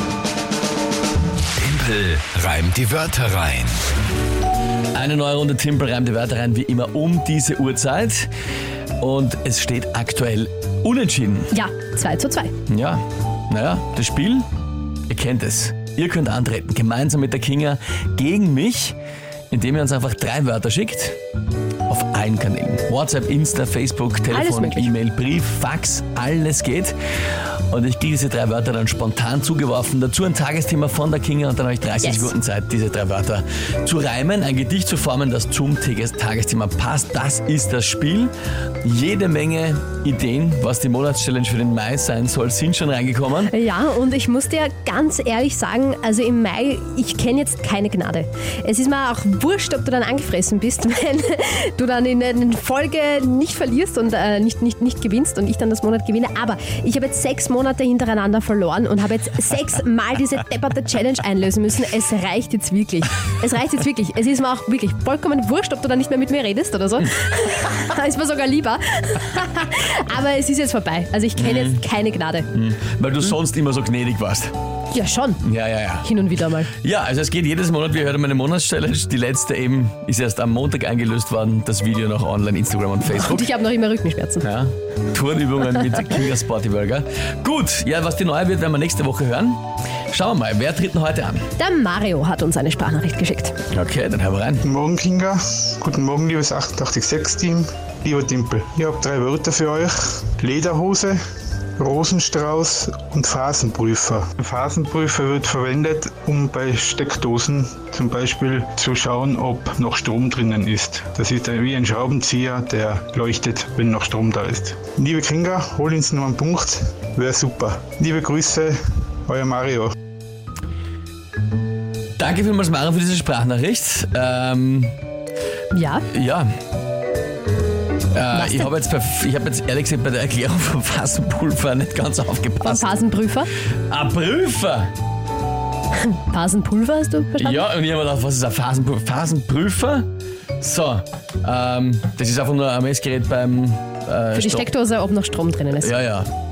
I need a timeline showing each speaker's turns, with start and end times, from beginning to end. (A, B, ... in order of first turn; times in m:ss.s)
0:01.6-0:03.8 A
0:04.9-0:08.3 B
0:09.0-0:11.5 B
0:11.5-0:12.5 C
0:12.7-0:14.5 B
0:15.1-0:19.0 B
0:19.5-0:21.2 B
0:21.9-0:26.9 B
0:24.3-0:24.9 C
0:27.7-0:38.3 B
0:32.0-0:32.3 C
0:38.8-0:43.5 B
0:43.5-1:12.5 C
1:11.4-1:11.8 B
1:12.5-1:14.5 B
1:14.9-1:15.5 C
1:15.4-1:16.1 B
1:16.0-1:16.7 C
1:16.8-1:23.4 B
1:23.0-1:24.4 C
1:24.4-1:31.4 B
1:31.6-1:33.6 C
1:33.7-1:34.6 B
1:34.6-1:41.2 D
1:41.8-1:59.9 D
2:02.2-2:04.9 B
2:05.7-2:06.1 C
2:06.1-2:06.5 B
2:08.1-2:12.9 B
2:08.3-2:08.7 C
2:12.6-2:13.5 C
2:13.9-2:14.9 B
2:15.9-2:17.6 C
2:17.4-2:20.1 B
2:20.6-2:24.7 B
2:24.3-2:26.0 C
2:25.8-2:26.3 B